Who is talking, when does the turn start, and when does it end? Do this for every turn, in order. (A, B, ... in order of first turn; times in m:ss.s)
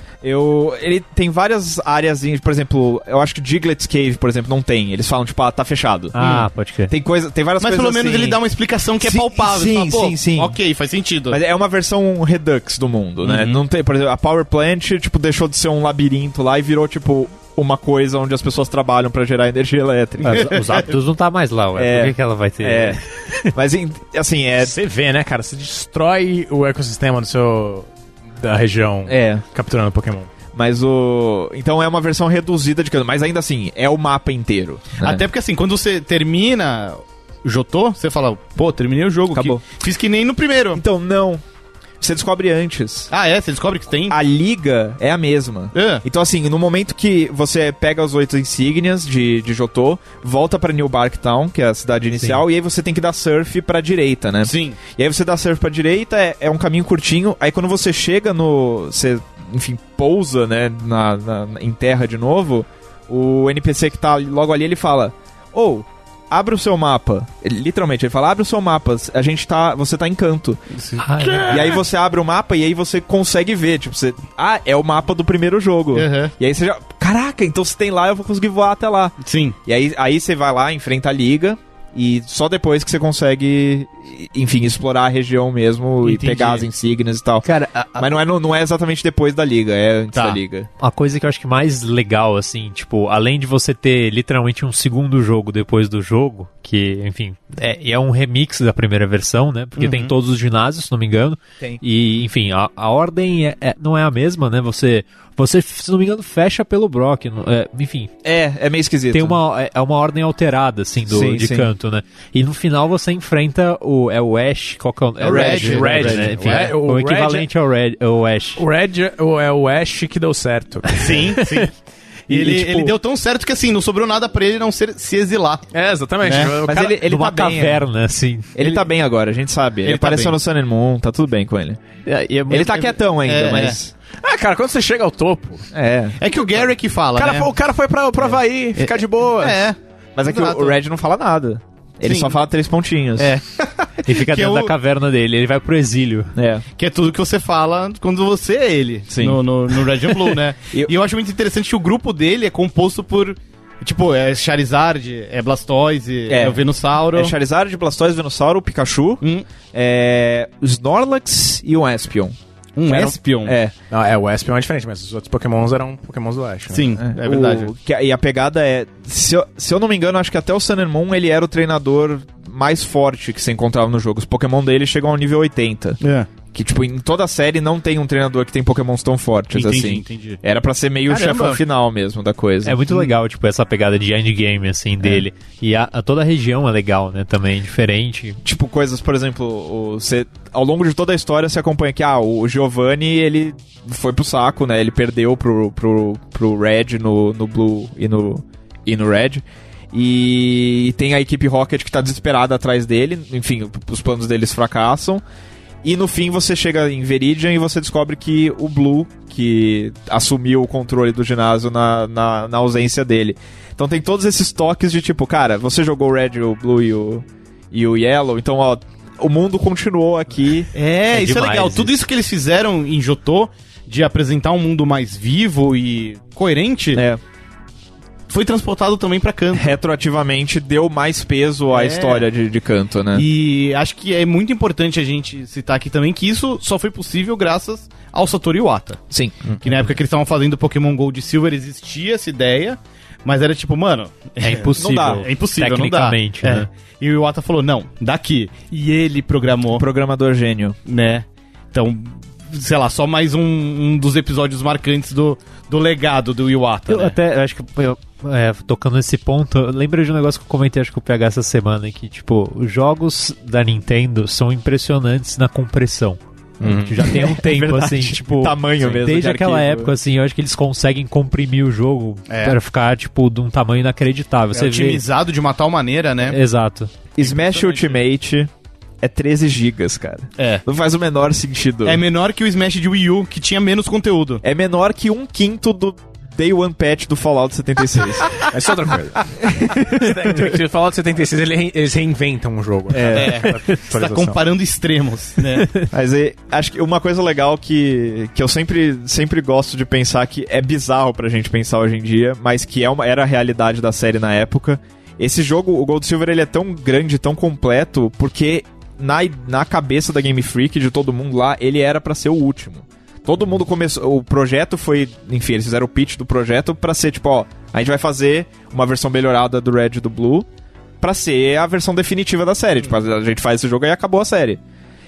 0:00.2-0:06.1 A
0:06.1-0:06.9 B
0:06.2-0:06.5 C
0:06.9-0:08.4 A
0:07.6-0:11.4 C
0:09.0-0:10.6 A
0:11.3-0:20.8 A
0:13.2-0:13.6 C
0:20.2-0:23.5 B
0:20.3-0:20.9 C
0:21.8-0:23.0 A
0:23.5-0:24.7 A
0:24.6-0:30.3 D
0:29.1-0:29.4 A
0:30.5-0:35.2 A
0:35.0-0:40.8 C
0:39.3-0:39.6 A
0:40.7-0:41.4 A
0:42.0-0:43.1 A
0:43.1-0:44.2 C
0:44.1-1:10.6 A
0:45.7-0:46.0 C
0:52.2-0:52.4 B
0:54.4-0:54.8 C
1:10.7-1:11.8 C
1:11.0-1:11.7 B
1:11.4-1:30.7 A
1:15.9-1:16.3 C
1:19.2-1:19.6 C
1:26.0-1:26.6 C
1:27.4-1:28.2 B
1:30.1-1:30.4 C
1:30.8-1:48.1 B
1:39.8-1:40.1 C
1:48.2-1:49.4 A
1:49.1-1:58.6 B
1:51.0-1:51.7 A
1:55.2-1:56.7 C
1:55.2-1:55.8 A
1:55.4-1:57.5 D
1:58.6-2:01.3 D
2:00.9-2:01.7 C
2:02.3-2:05.6 C
2:02.3-2:02.8 A
2:05.7-2:07.0 D
2:06.2-2:06.5 C
2:06.6-2:07.8 A
2:07.0-2:08.5 B
2:08.5-2:11.8 A
2:09.8-2:10.4 C
2:12.0-2:12.8 B
2:12.5-2:13.9 A
2:12.6-2:13.8 C
2:14.2-2:15.7 D
2:15.7-2:16.2 A
2:16.2-2:17.5 C
2:17.2-2:19.6 D
2:19.4-2:20.8 C
2:20.2-2:23.3 A
2:22.0-2:22.3 C
2:23.6-2:24.7 C
2:24.0-2:26.3 B
2:26.4-2:26.6 A
2:26.8-2:37.3 C
2:29.1-2:29.4 A
2:36.3-2:36.6 A
2:37.1-2:42.3 A
2:42.8-2:43.6 C
2:42.9-2:43.7 A
2:43.9-2:46.9 D
2:46.7-2:47.7 C
2:47.0-2:56.0 A
2:56.0-2:56.3 C
2:56.5-3:02.8 A
2:59.5-3:00.4 C
3:01.1-3:01.6 C
3:02.6-3:08.4 B
3:08.4-3:25.2 A
3:25.8-3:40.7 A
3:40.7-3:47.0 C
3:41.1-3:42.0 B
3:46.9-3:47.2 A
3:48.3-3:49.8 C
3:49.5-3:53.2 A
3:51.7-3:52.3 C
3:53.1-3:59.0 C
3:59.1-3:59.5 A
3:59.6-4:09.8 C
4:04.4-4:06.7 B
4:04.8-4:05.2 A
4:09.7-4:10.8 A
4:10.8-4:17.2 C
4:16.9-4:35.0 B
4:26.6-4:27.0 D
4:27.0-4:29.9 A
4:32.3-4:32.6 C
4:34.5-4:36.4 C
4:36.3-4:36.9 B
4:37.2-4:38.5 A
4:37.2-4:37.9 C
4:39.0-4:42.0 A
4:40.4-4:40.6 C
4:41.8-4:44.4 C
4:44.4-4:48.4 A
4:48.5-4:54.4 D
4:49.4-4:50.1 A
4:52.9-4:53.4 A
4:53.0-4:55.7 C
4:55.6-4:55.9 B
4:55.9-5:20.5 A
5:21.0-5:24.6 A